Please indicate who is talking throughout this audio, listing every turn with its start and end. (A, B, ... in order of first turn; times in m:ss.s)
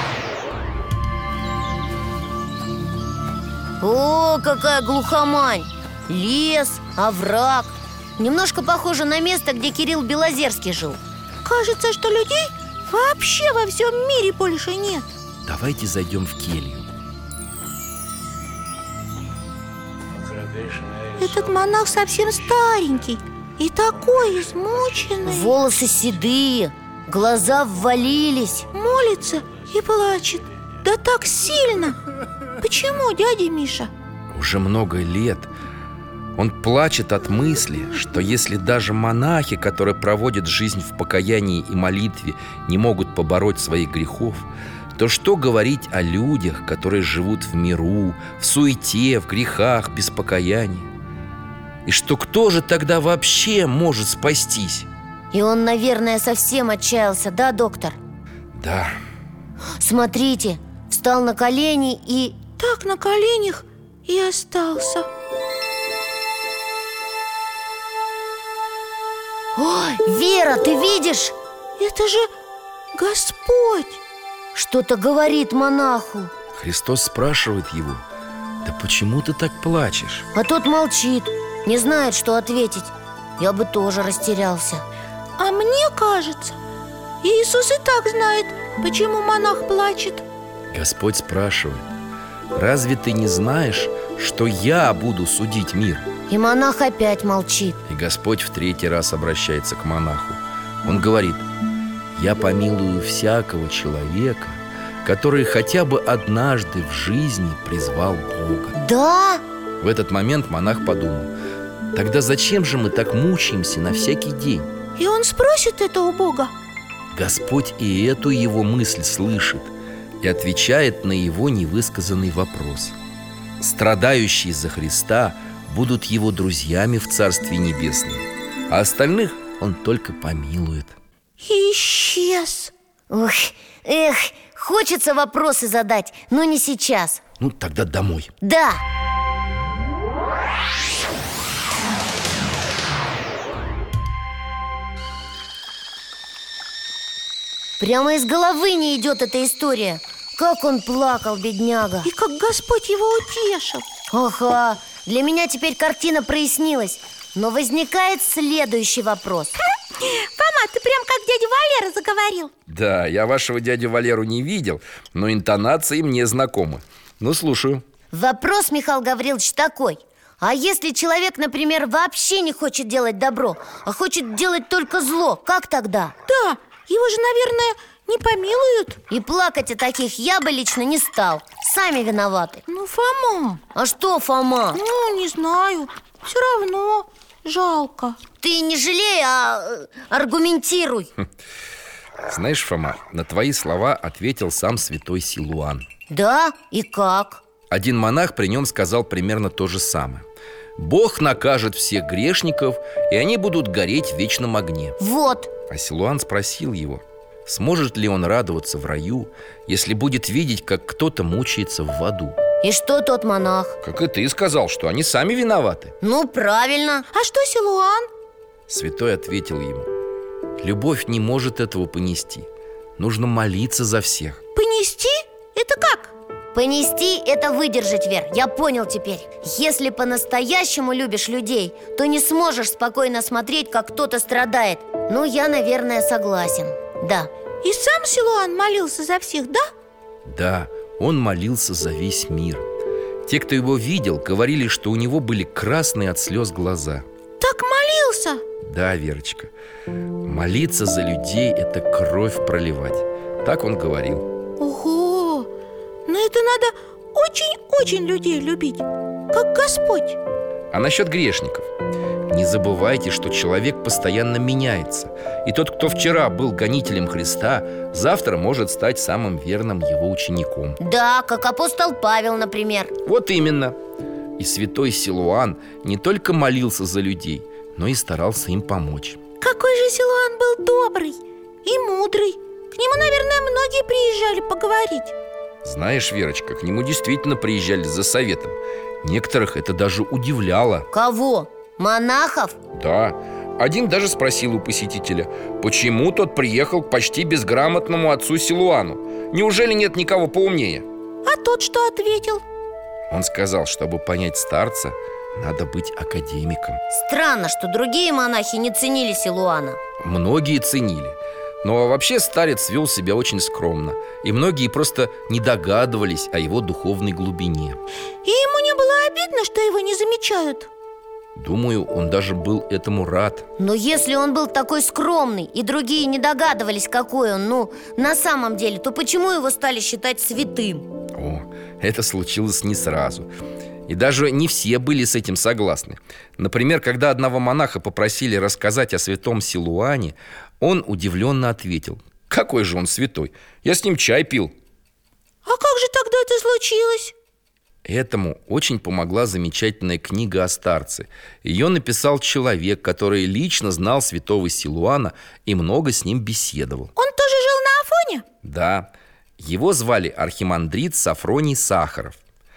0:03.8-0:11.0 A
0:11.4-0:15.1 B
0:15.4-0:16.9 C
0:20.6-0:25.6 B
0:25.3-0:28.7 A
0:28.7-0:32.0 B
0:32.6-0:33.9 B
0:34.3-0:35.5 C
0:36.4-0:50.9 C
0:51.8-0:54.9 C
0:55.3-0:58.0 A
0:58.5-0:59.0 C
0:59.8-1:02.4 A
1:02.6-1:05.1 B
1:09.6-1:11.4 A
1:11.8-1:12.3 B
1:13.0-1:14.0 B
1:14.6-1:16.3 A
1:16.5-1:18.0 C
1:18.6-1:20.3 C
1:20.4-1:24.8 A
1:25.4-1:26.6 B
1:27.2-1:30.2 B
1:30.7-1:31.9 C
1:32.5-1:36.1 C
1:36.3-1:37.8 A
1:37.9-1:41.5 C
1:42.2-1:48.8 C
1:48.8-1:49.4 A
1:49.8-1:51.3 C
1:51.9-1:54.7 C
1:55.0-1:56.5 B
1:57.1-2:03.0 C
2:03.6-2:11.0 C
2:11.4-2:12.7 B
2:13.1-2:17.2 A
2:17.4-2:18.3 C
2:18.4-2:18.8 A
2:27.8-2:32.1 A
2:32.0-2:33.8 B
2:34.1-2:39.6 A
2:40.0-2:42.5 B
2:42.7-2:47.8 C
2:48.1-2:56.2 A
2:56.3-2:59.0 B
2:59.1-3:02.6 A
3:02.7-3:03.6 B
3:03.8-3:04.8 A
3:04.8-3:08.2 B
3:08.4-3:11.1 A
3:12.3-3:15.8 C
3:16.1-3:17.4 A
3:17.7-3:20.2 C
3:20.8-3:25.0 C
3:25.0-3:25.5 A
3:25.7-3:32.4 C
3:32.6-3:33.8 A
3:33.8-3:36.0 C
3:36.0-3:37.1 A
3:37.1-3:38.1 B
3:38.7-3:39.9 C
3:40.6-3:44.4 C
3:44.6-3:46.1 B
3:46.5-3:57.3 A
3:57.6-3:59.7 B
4:00.2-4:02.6 C
4:03.3-4:07.0 C
4:07.4-4:08.4 B
4:08.6-4:09.5 C
4:10.2-4:14.3 C
4:14.6-4:15.5 B
4:16.1-4:20.2 B
4:20.7-4:21.7 C
4:22.3-4:30.8 C
4:30.8-4:32.9 A
4:33.0-4:33.8 C
4:34.4-4:39.2 C
4:39.4-4:45.2 B
4:45.6-4:50.9 C
4:50.9-4:52.6 A
4:52.7-5:00.9 C
5:01.2-5:02.4 B
5:03.1-5:06.8 C
5:06.9-5:09.8 A
5:10.0-5:17.8 C
5:18.2-5:20.7 B
5:21.4-5:23.5 C
5:23.6-5:30.9 A
5:31.2-5:33.3 C
5:33.9-5:44.5 C
5:45.4-5:47.1 B
5:47.8-5:56.9 C
5:57.0-5:58.2 B
5:58.4-6:02.2 C